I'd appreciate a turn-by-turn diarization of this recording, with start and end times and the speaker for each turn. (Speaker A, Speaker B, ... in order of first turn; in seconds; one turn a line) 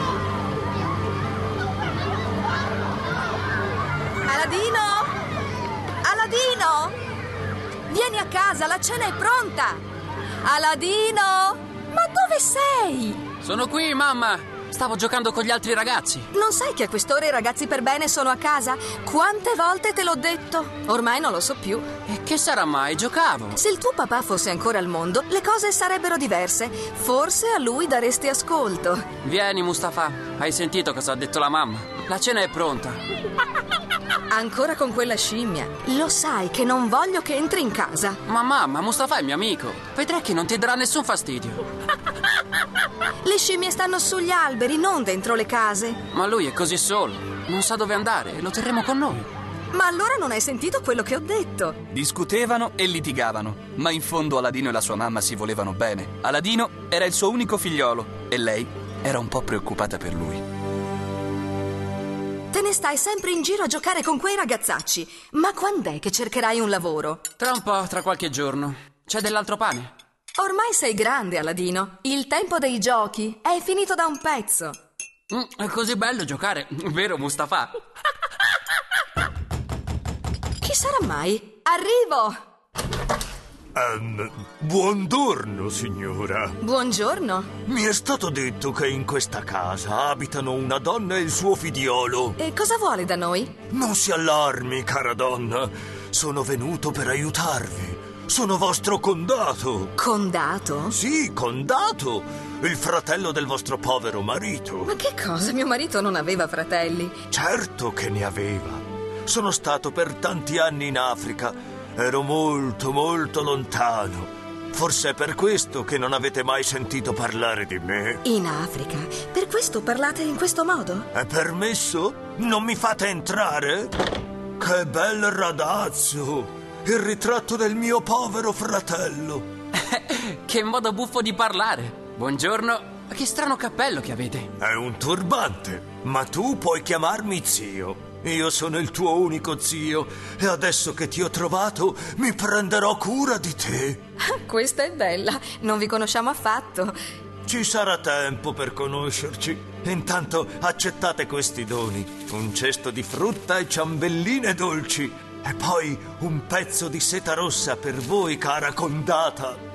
Speaker A: 4.2-5.1
Speaker A: 6.0-6.9
Speaker A: 7.9-9.8
Speaker A: 10.4-13.2
Speaker B: 13.4-16.3
Speaker A: 16.3-21.9
Speaker B: 22.1-23.6
Speaker A: 23.6-29.1
Speaker B: 29.2-33.0
Speaker A: 34.3-38.2
Speaker B: 38.2-41.6
Speaker A: 43.2-46.0
Speaker B: 46.1-49.3
Speaker A: 49.7-51.8
Speaker C: 51.9-60.4
Speaker A: 62.5-67.2
Speaker B: 67.4-69.9
Speaker A: 70.4-74.8
Speaker B: 75.3-77.8
Speaker A: 80.6-82.4
Speaker D: 83.7-86.6
Speaker A: 86.6-87.5
Speaker D: 87.6-92.4
Speaker A: 92.4-93.6
Speaker D: 93.7-99.9
Speaker A: 100.0-101.0
Speaker D: 100.9-104.9
Speaker A: 104.8-107.2
Speaker D: 107.3-118.2
Speaker A: 118.2-121.1
Speaker D: 121.1-123.9
Speaker D: 124.6-129.5
Speaker B: 129.8-134.5
Speaker D: 134.6-144.0
Speaker A: 144.2-146.9
Speaker D: 147.4-159.6